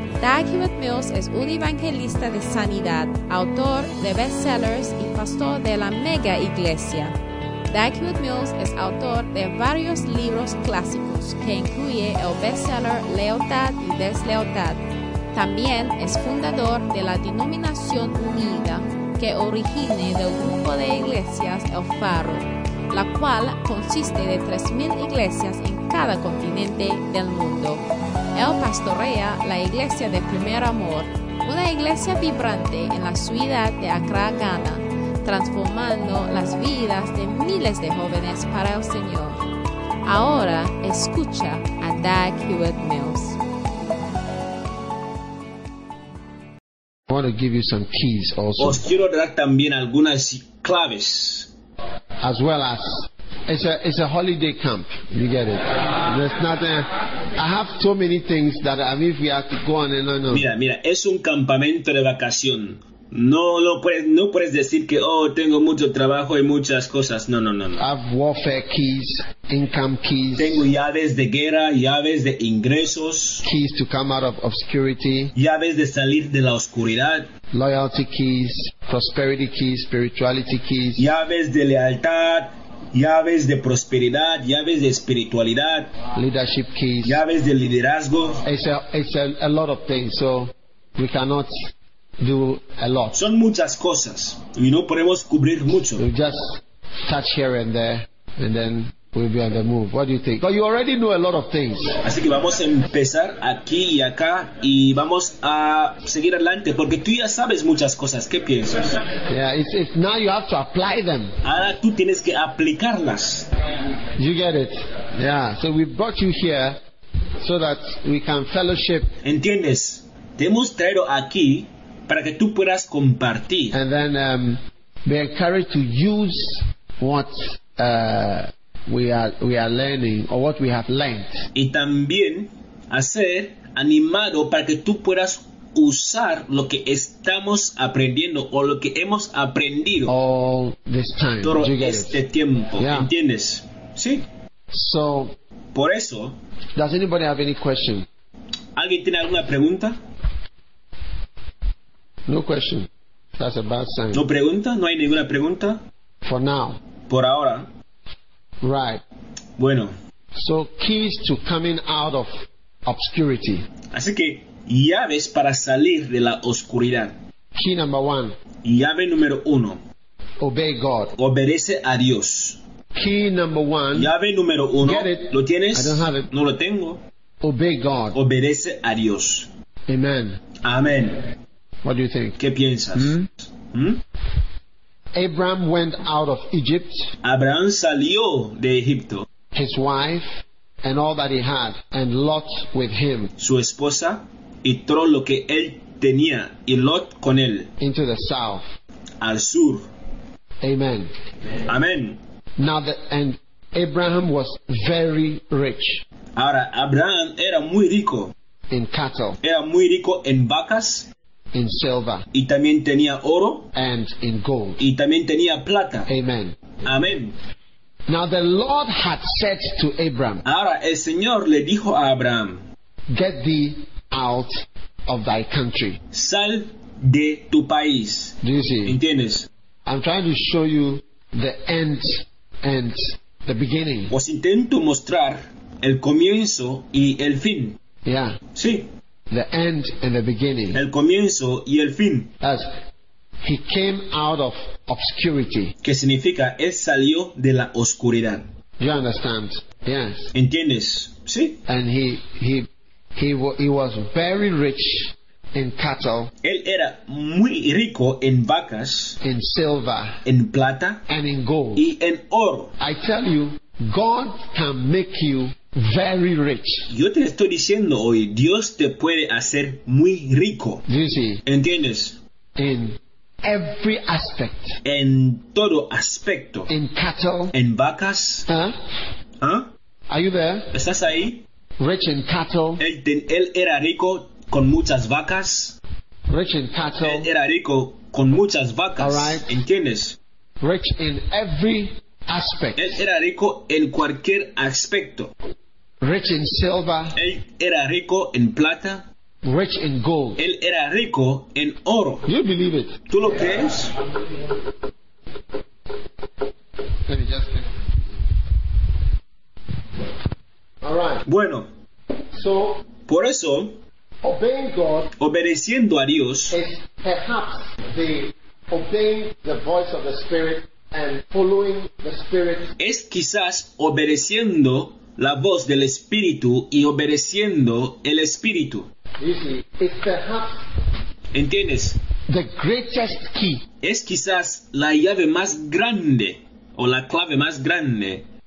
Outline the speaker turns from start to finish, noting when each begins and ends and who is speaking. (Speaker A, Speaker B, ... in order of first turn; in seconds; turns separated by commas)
Speaker A: 0.2-7.1, Speaker A: 7.7-39.4, Speaker A: 40.0-43.4, Speaker B: 47.1-48.8, Speaker C: 48.6-51.5, Speaker B: 52.2-60.5, Speaker C: 60.3-67.8, Speaker B: 67.8-70.7, Speaker C: 70.4-73.4, Speaker B: 73.4-75.3, Speaker C: 75.3-77.3, Speaker B: 77.5-81.1, Speaker C: 81.0-85.9, Speaker B: 86.1-87.2, Speaker C: 87.0-88.4, Speaker B: 88.4-93.2, Speaker C: 93.1-96.0, Speaker B: 96.0-102.0, Speaker C: 102.0-109.0, Speaker B: 109.3-111.3, Speaker C: 111.4-113.5, Speaker B: 114.2-116.8, Speaker B: 117.4-119.1, Speaker C: 119.2-123.8, Speaker B: 123.7-131.5, Speaker C: 131.5-140.1, Speaker B: 140.1-142.2, Speaker C: 141.4-144.2, Speaker B: 142.8-143.1, Speaker B: 144.7-145.3, Speaker C: 145.7-146.4, Speaker B: 146.8-148.1, Speaker C: 148.7-150.0, Speaker B: 152.3-154.2, Speaker C: 154.1-155.8, Speaker B: 156.2-156.8, Speaker C: 157.1-157.7, Speaker B: 158.6-159.0, Speaker C: 159.6-159.9, Speaker B: 160.3-162.3, Speaker B: 162.8-163.7, Speaker C: 163.9-167.2, Speaker B: 167.5-168.3, Speaker C: 168.6-169.8, Speaker B: 170.4-171.2, Speaker C: 171.2-172.6, Speaker B: 172.9-174.1, Speaker C: 173.9-177.0, Speaker B: 174.8-176.3, Speaker B: 177.4-178.2, Speaker C: 178.1-179.5, Speaker B: 179.9-180.4, Speaker C: 180.6-181.3, Speaker B: 181.8-182.4, Speaker C: 182.4-184.0, Speaker B: 182.9-183.3, Speaker B: 185.1-187.1, Speaker C: 187.2-189.3, Speaker B: 189.5-193.3, Speaker C: 193.4-197.7, Speaker B: 197.8-198.7, Speaker C: 199.2-199.8, Speaker B: 200.6-201.1, Speaker C: 201.7-202.2, Speaker B: 202.6-206.0, Speaker C: 206.3-208.3, Speaker B: 208.7-209.4, Speaker C: 209.4-211.1, Speaker B: 211.5-212.2, Speaker C: 212.3-213.7, Speaker B: 213.7-214.8, Speaker C: 214.8-216.1, Speaker B: 216.1-216.6, Speaker C: 216.8-217.3, Speaker B: 218.1-220.4, Speaker C: 220.4-222.6, Speaker B: 223.1-226.0, Speaker C: 226.1-229.5, Speaker B: 228.4-229.0, Speaker B: 229.8-234.1, Speaker C: 234.1-237.8, Speaker B: 238.0-238.4, Speaker C: 238.5-238.9, Speaker B: 239.3-240.8, Speaker C: 240.7-242.3, Speaker B: 242.4-242.8, Speaker B: 243.4-245.7, Speaker C: 245.8-248.5, Speaker B: 248.8-250.3, Speaker C: 250.3-251.6, Speaker B: 251.7-256.3, Speaker C: 256.4-259.2, Speaker B: 259.2-260.2, Speaker C: 260.2-261.0, Speaker B: 261.1-261.8, Speaker C: 261.8-262.7, Speaker B: 262.8-266.9, Speaker C: 266.9-270.8, Speaker B: 270.9-271.4, Speaker C: 271.4-272.2, Speaker B: 272.6-274.8, Speaker C: 274.8-276.7, Speaker B: 276.7-277.5, Speaker C: 277.5-278.5, Speaker B: 278.5-278.8, Speaker C: 279.4-279.7, Speaker B: 280.1-280.7, Speaker C: 280.7-281.4, Speaker B: 281.8-282.8, Speaker C: 282.8-285.8, Speaker B: 286.3-287.3, Speaker C: 287.0-290.2, Speaker B: 289.0-289.6, Speaker B: 290.6-293.0, Speaker C: 292.8-295.3, Speaker B: 296.0-297.1, Speaker C: 297.1-299.1, Speaker B: 299.4-300.4, Speaker C: 300.4-302.2, Speaker B: 302.2-303.0, Speaker C: 303.1-303.9, Speaker B: 307.1-307.9, Speaker B: 310.8-311.2, Speaker C: 311.2-311.7, Speaker B: 312.3-312.8, Speaker C: 313.1-313.8, Speaker B: 314.2-315.1, Speaker C: 315.2-316.6, Speaker B: 316.5-322.7, Speaker C: 322.8-328.9, Speaker B: 329.2-330.6, Speaker C: 331.3-332.0, Speaker B: 332.3-333.6, Speaker C: 333.8-338.2